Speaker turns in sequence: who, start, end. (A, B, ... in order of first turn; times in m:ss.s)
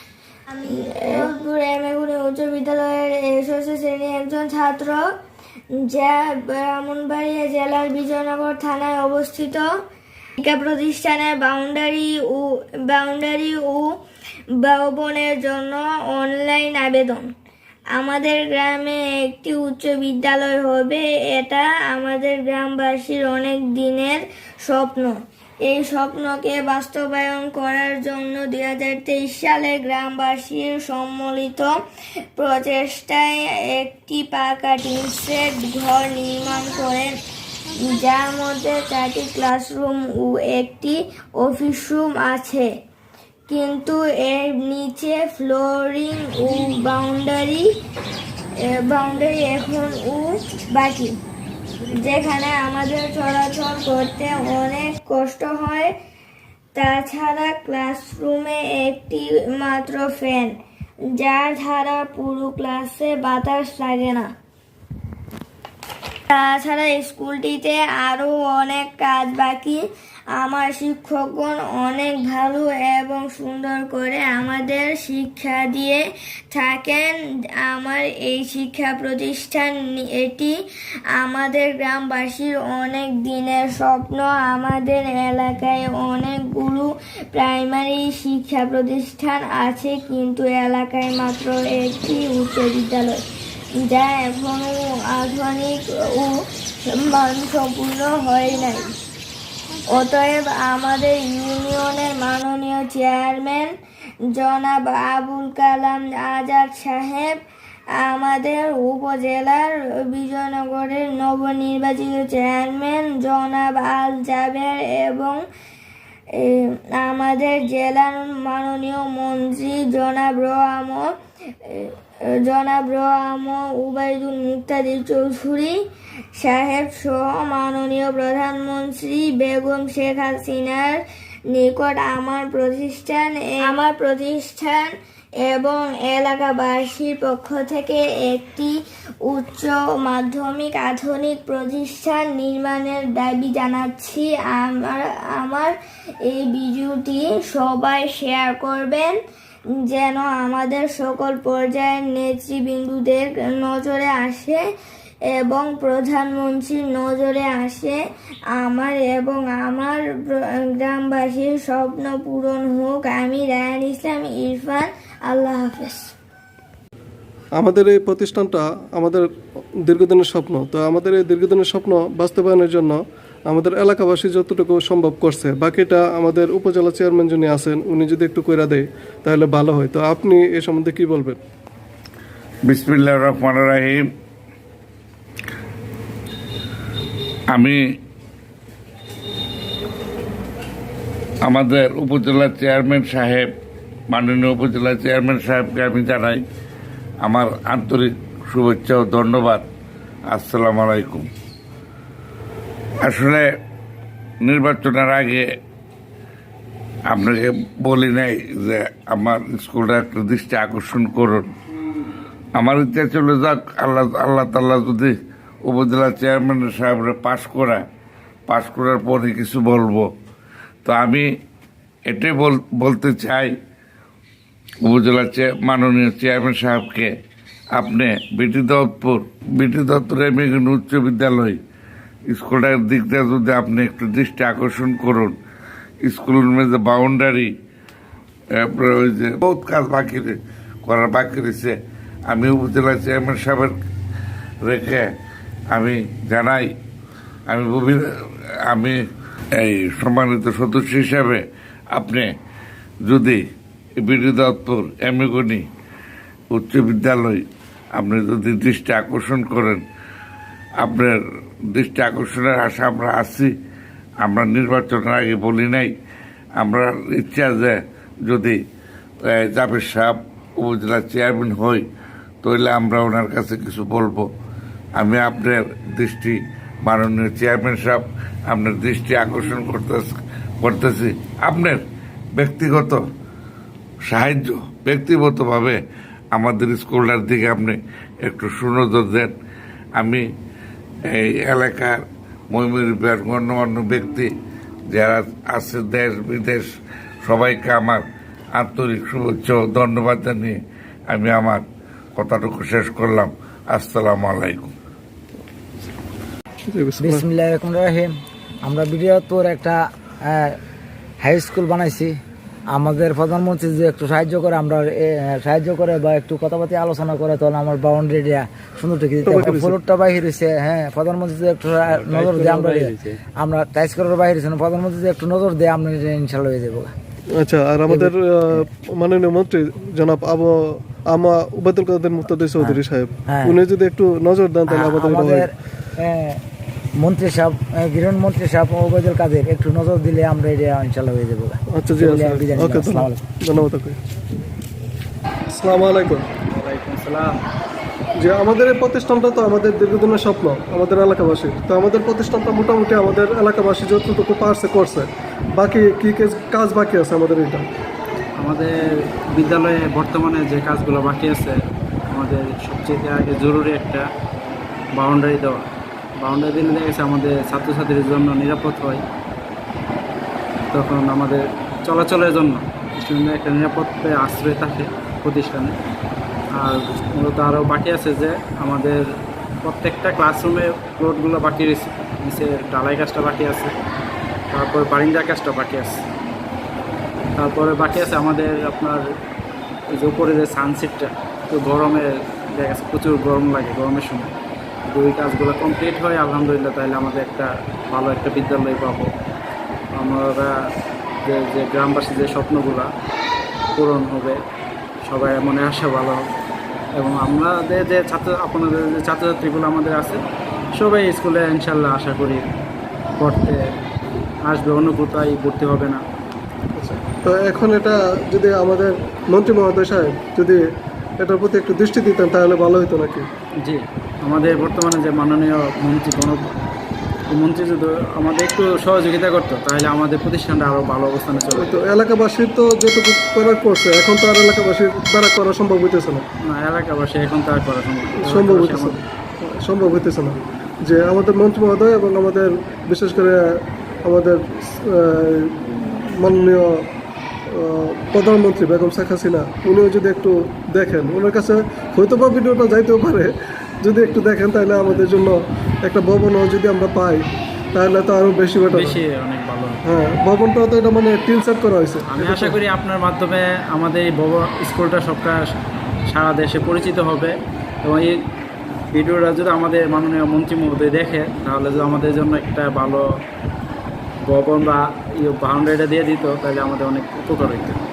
0:00.6-0:05.0 A
0:05.8-0:09.6 A
0:10.4-0:13.9 A
0:14.6-0:17.3 A
0:17.9-0:31.7 A
0:32.4-0:37.1 A
0:37.8-0:42.7 A
0:43.5-0:47.7 A
0:48.6-0:51.2 A
0:51.9-0:55.9 A
0:56.8-1:00.5 A
1:01.2-1:04.3 A
1:06.3-1:09.8 A
1:10.4-1:20.5 A
1:21.2-1:33.2 A
1:33.8-1:36.4 A
1:36.9-1:39.0 A
1:39.9-1:43.7 A
1:44.3-1:47.3 A
1:48.0-1:55.4 A
1:56.4-2:01.1 A
2:01.6-2:05.8 A
2:06.4-2:11.0 A
2:11.5-2:14.9 A
2:15.4-2:18.7 A
2:19.3-2:25.7 A
2:26.3-2:29.1 A
2:29.9-2:34.6 A
2:35.2-2:38.0 A
2:38.5-2:46.1 A
2:47.6-2:49.3 B
2:49.8-3:01.4 B
3:02.6-3:04.0 C
3:07.5-3:07.8 C
3:11.4-3:13.5 C
3:14.1-3:16.4 C
3:17.2-3:19.7 C
3:20.3-3:21.3 C
3:23.0-3:23.5 C
3:24.4-3:25.5 C
3:27.1-3:31.5 C
3:32.6-3:37.8 C
3:38.5-3:40.1 C
3:40.8-3:41.3 C
3:42.1-3:43.5 C
3:44.8-3:47.1 C
3:47.7-3:51.6 C
3:52.3-3:55.4 C
3:56.0-3:57.5 C
3:58.5-4:01.8 C
4:02.3-4:03.7 C
4:04.6-4:05.1 C
4:05.7-4:06.7 C
4:07.5-4:08.0 C
4:08.7-4:09.0 C
4:09.6-4:12.3 C
4:13.0-4:13.4 C
4:14.0-4:15.7 C
4:16.5-4:19.8 C
4:20.8-4:21.2 C
4:21.7-4:23.5 C
4:24.2-4:25.9 C
4:26.6-4:28.6 C
4:29.2-4:31.9 C
4:32.4-4:34.3 C
4:35.0-4:41.8 C
4:42.4-4:43.0 C
4:44.1-4:45.8 C
4:46.3-4:49.3 C
4:50.0-4:50.2 C
4:51.1-4:52.0 C
4:52.5-4:54.3 C
4:54.9-4:56.7 C
4:57.2-5:00.6 C
5:01.1-5:01.6 C
5:02.2-5:04.7 C
5:06.7-5:07.2 B
5:07.0-5:08.1 D
5:08.6-5:10.5 D
5:11.2-5:12.1 D
5:12.7-5:26.9 D
5:19.2-5:19.8 B
5:22.0-5:23.2 E
5:27.4-5:35.4 B
5:32.6-5:33.6 D
5:34.7-5:36.4 D
5:37.0-5:43.2 D
5:41.7-5:44.0 B
5:45.5-5:46.3 B
5:46.5-5:47.4 E
5:48.2-5:57.6 B
5:58.4-5:58.8 E
5:59.3-6:01.6 E
6:02.1-6:04.0 E
6:05.0-6:05.7 E
6:06.2-6:09.0 E
6:10.7-6:15.7 E
6:16.6-6:19.0 E
6:19.6-6:23.7 E
6:24.5-6:26.0 E
6:27.4-6:29.0 E
6:29.9-6:32.1 E
6:32.6-6:34.3 E
6:34.9-6:39.1 E
6:40.0-6:40.5 E
6:41.2-6:42.9 E
6:43.8-6:44.4 E
6:45.0-6:46.3 E
6:47.0-6:50.2 E
6:50.8-6:52.4 E
6:53.2-6:53.6 E
6:54.5-6:56.0 E
6:56.8-7:00.6 B
7:01.2-7:03.3 B
7:03.6-7:06.4 E
7:07.3-7:11.8 E
7:11.5-7:16.2 B
7:16.5-7:19.0 E
7:18.2-7:26.9 B
7:27.5-7:37.2 B
7:37.7-7:39.0 B
7:38.6-7:39.8 E
7:39.8-7:42.6 B
7:42.1-7:45.4 E
7:46.1-7:47.3 E
7:47.8-7:48.2 E
7:48.9-7:53.0 E
7:54.3-7:57.8 E